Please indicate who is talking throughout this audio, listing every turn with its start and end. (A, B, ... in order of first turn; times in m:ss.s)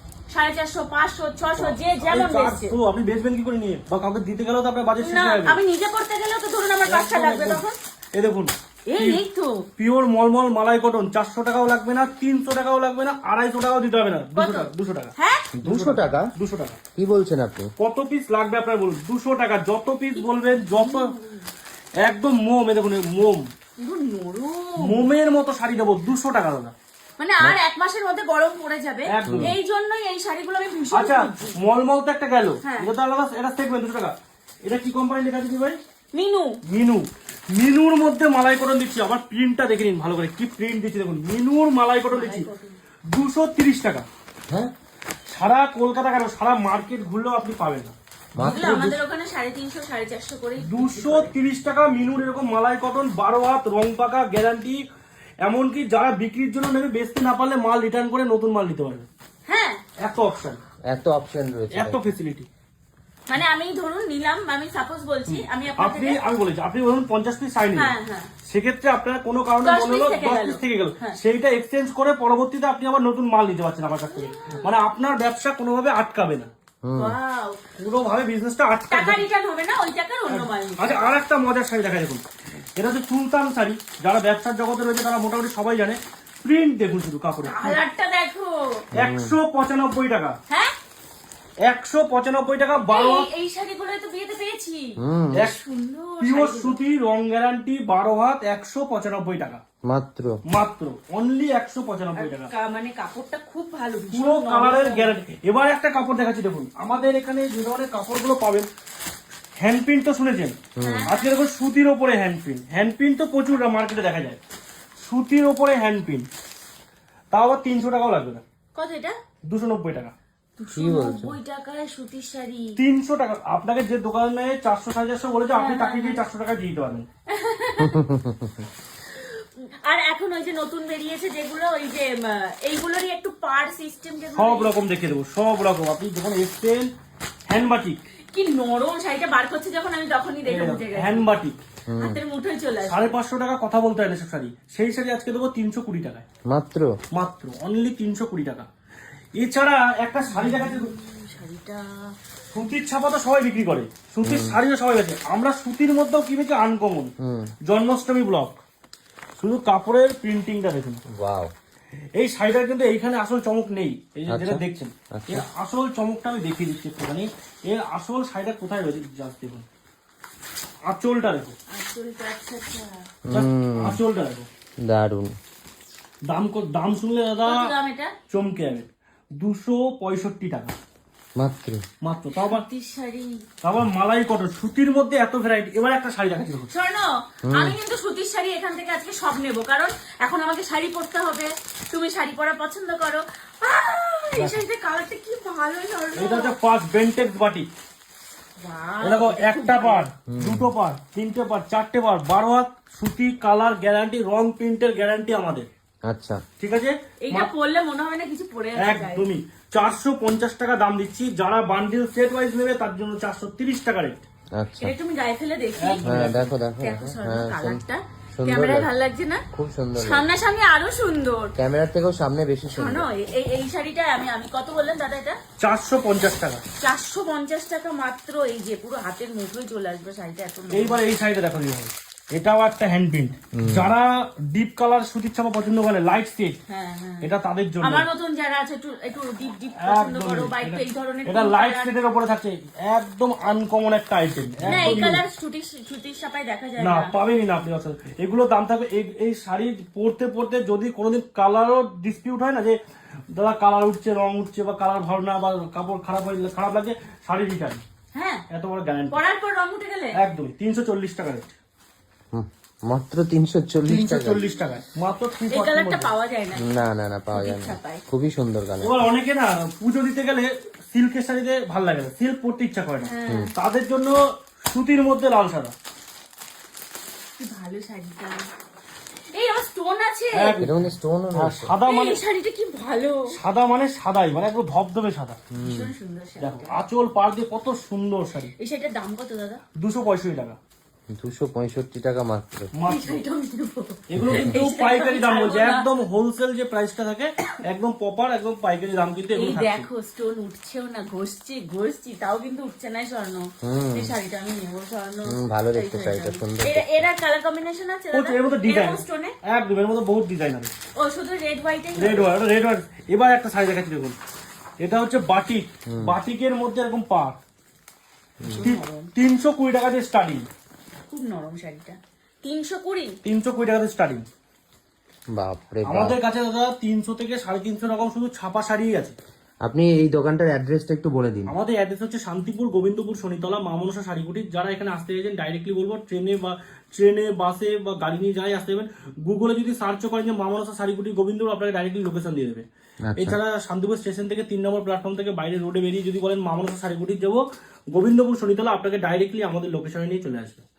0:00.3-0:02.7 A
0:01.6-0:05.6 B
0:05.0-0:07.8 A
0:06.9-0:07.6 B
0:08.1-0:09.2 B
0:08.9-0:09.6 A
0:09.8-0:16.8 B
0:14.3-0:15.4 A
0:15.5-0:16.3 C
0:17.0-0:17.7 C
0:17.8-0:21.1 B
0:20.2-0:21.4 A
0:22.0-0:23.4 B
0:23.8-0:25.0 A
0:24.8-0:26.7 B
0:27.2-0:31.6 A
0:29.1-0:29.6 B
0:29.3-0:29.6 C
0:30.9-0:35.8 B
0:32.6-0:32.9 A
0:36.1-0:36.6 A
0:36.7-0:42.5 B
0:42.1-0:42.7 A
0:43.1-0:44.0 B
0:45.3-0:47.9 B
0:48.4-0:49.0 C
0:48.4-0:51.3 A
0:50.7-0:54.8 B
0:55.4-0:59.1 B
0:59.5-0:59.8 A
1:00.0-1:00.6 B
1:00.9-1:02.0 C
1:01.7-1:02.5 B
1:03.3-1:06.2 A
1:05.3-1:07.9 B
1:07.7-1:08.3 A
1:08.5-1:16.5 B
1:09.6-1:11.2 A
1:14.1-1:14.7 A
1:16.8-1:17.1 C
1:17.0-1:17.6 A
1:17.8-1:19.2 B
1:18.9-1:21.0 A
1:20.3-1:22.2 B
1:22.7-1:27.8 B
1:27.4-1:28.8 A
1:28.9-1:29.3 C
1:28.9-1:30.4 B
1:31.6-1:33.3 B
1:32.9-1:35.0 A
1:35.0-1:35.5 C
1:35.5-1:36.8 A
1:36.2-1:39.6 B
1:39.9-1:40.3 C
1:40.5-1:42.5 B
1:42.2-1:45.1 A
1:44.1-1:48.7 B
1:49.6-1:54.4 B
1:50.8-1:51.1 C
1:50.8-1:51.3 A
1:55.0-1:56.3 B
1:57.3-1:58.4 B
1:58.7-1:59.2 A
1:59.5-2:00.1 B
2:00.6-2:02.8 A
2:00.7-2:01.4 C
2:02.8-2:07.0 B
2:05.5-2:06.2 A
2:07.3-2:08.0 A
2:07.8-2:08.6 C
2:09.1-2:14.7 A
2:14.3-2:16.9 B
2:17.5-2:18.0 B
2:18.3-2:21.2 A
2:20.4-2:21.6 B
2:21.9-2:22.2 C
2:22.0-2:23.2 A
2:22.8-2:26.2 B
2:26.5-2:26.9 C
2:27.1-2:28.7 B
2:29.4-2:30.9 B
2:30.3-2:32.1 A
2:32.5-2:37.1 B
2:34.2-2:34.6 C
2:37.2-2:37.5 C
2:37.6-2:38.6 B
2:39.4-2:41.0 B
2:41.1-2:41.5 C
2:42.2-2:49.6 B
2:44.3-2:44.6 C
2:45.1-2:45.4 C
2:50.8-2:51.5 B
2:51.7-2:53.0 A
2:53.3-2:54.0 C
2:53.3-2:54.5 B
2:54.8-2:55.3 C
2:56.3-2:57.7 B
2:57.4-2:58.1 A
2:58.3-2:58.8 B
2:59.4-3:00.7 B
3:01.4-3:01.8 C
3:02.0-3:02.6 B
3:02.3-3:03.4 A
3:03.6-3:06.7 B
3:06.7-3:16.5 A
3:07.5-3:07.8 C
3:16.2-3:17.7 B
3:18.6-3:20.1 A
3:19.0-3:25.7 B
3:20.3-3:20.7 C
3:26.1-3:26.4 C
3:26.6-3:27.5 B
3:27.2-3:29.2 A
3:28.8-3:34.2 B
3:34.6-3:34.9 C
3:34.8-3:36.2 A
3:35.8-3:36.5 B
3:36.0-3:37.8 C
3:36.8-3:39.4 A
3:38.4-3:38.9 C
3:39.5-3:40.2 C
3:40.0-3:41.5 A
3:41.6-3:43.1 C
3:42.7-3:45.4 A
3:45.6-3:46.6 B
3:46.8-3:51.0 A
3:50.7-3:56.6 B
3:53.6-3:53.9 C
3:56.7-3:57.3 A
3:57.2-3:58.1 B
3:57.8-4:01.9 A
3:59.8-4:05.2 B
4:04.6-4:07.1 A
4:06.8-4:12.8 B
4:13.3-4:17.8 B
4:18.1-4:18.4 A
4:18.5-4:19.2 B
4:19.1-4:20.2 A
4:20.2-4:21.5 B
4:22.3-4:24.4 C
4:23.8-4:26.1 B
4:25.5-4:26.8 A
4:26.5-4:29.0 C
4:27.3-4:28.0 A
4:28.8-4:35.7 B
4:33.0-4:33.5 A
4:37.4-4:38.5 A
4:39.3-4:40.6 A
4:40.3-4:42.2 B
4:40.6-4:41.7 C
4:41.8-4:43.3 A
4:43.3-4:45.4 B
4:45.5-4:45.9 C
4:45.6-4:46.7 A
4:46.4-4:48.5 B
4:48.6-4:49.6 A
4:49.8-4:50.6 B
4:51.1-4:52.7 C
4:52.7-4:53.2 B
4:52.9-4:55.9 A
4:54.1-4:59.9 B
4:54.2-4:54.5 C
4:59.3-5:09.3 A
5:03.6-5:04.1 C
5:05.3-5:07.0 C
5:08.1-5:10.7 B
5:11.0-5:12.3 A
5:12.0-5:14.2 B
5:14.8-5:17.4 B
5:18.4-5:18.7 C
5:18.4-5:19.1 A
5:18.6-5:20.4 B
5:21.1-5:23.2 A
5:23.2-5:24.2 B
5:25.4-5:26.2 C
5:25.8-5:29.1 B
5:29.6-5:31.5 C
5:31.5-5:42.6 B
5:43.0-5:43.4 C
5:43.2-5:50.6 B